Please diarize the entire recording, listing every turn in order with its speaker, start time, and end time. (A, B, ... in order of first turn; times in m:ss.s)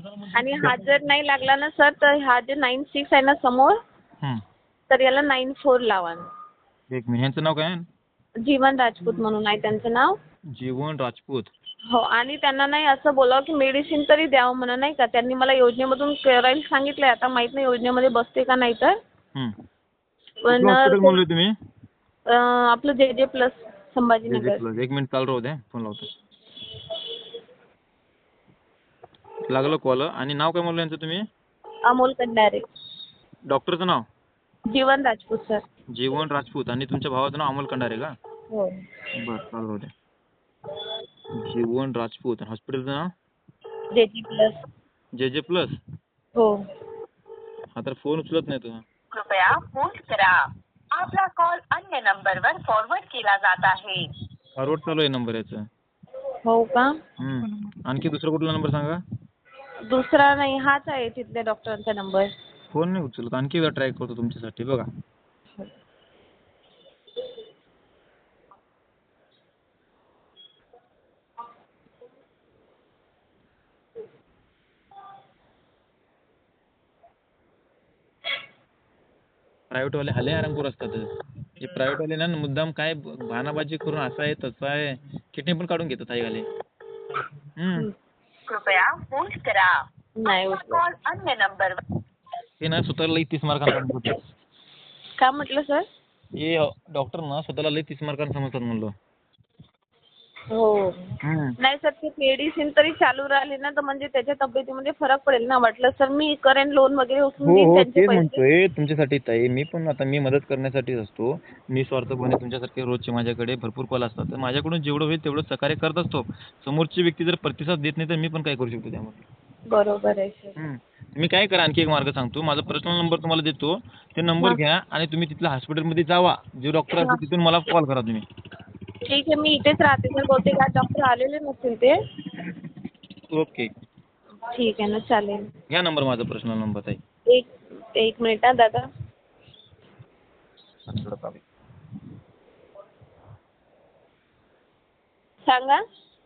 0:00.3-0:03.8 A
0:00.5-0:00.8 B
0:04.9-0:06.2 A
0:06.9-0:07.9 B
0:08.4-0:10.1 A
0:10.5-0:11.5 B
0:11.9-0:19.0 A
0:20.4-0:21.2 A
0:20.5-0:21.5 B
0:22.3-0:24.6 A
0:24.3-0:26.1 B
0:29.5-0:31.2 B
0:31.8-0:32.6 A
0:33.5-0:34.0 B
0:34.7-0:35.6 A
0:35.9-0:38.1 B
0:38.5-0:38.8 A
0:39.2-0:39.9 B
0:41.4-0:43.1 B
0:43.9-0:44.6 A
0:45.2-0:45.8 B
0:47.8-0:48.8 B
0:49.1-0:50.4 C
0:50.9-0:54.1 C
0:54.6-0:55.6 B
0:56.4-0:56.9 A
0:57.2-0:59.0 B
0:59.9-1:02.3 A
1:02.7-1:04.9 B
1:19.7-1:21.1 B
1:21.6-1:26.4 B
1:27.6-1:27.9 B
1:28.5-1:29.8 C
1:30.2-1:30.8 A
1:30.4-1:31.8 C
1:32.6-1:34.2 B
1:35.2-1:35.9 A
1:36.4-1:38.9 B
1:40.5-1:41.1 A
1:41.2-1:41.6 B
1:41.6-1:48.4 A
1:47.4-1:59.2 B
1:59.7-2:00.6 A
2:00.6-2:08.2 B
2:09.1-2:12.0 A
2:13.3-2:13.7 B
2:14.5-2:15.4 A
2:15.7-2:17.0 B
2:17.3-2:18.9 A
2:20.9-2:21.4 B
2:25.4-2:25.8 A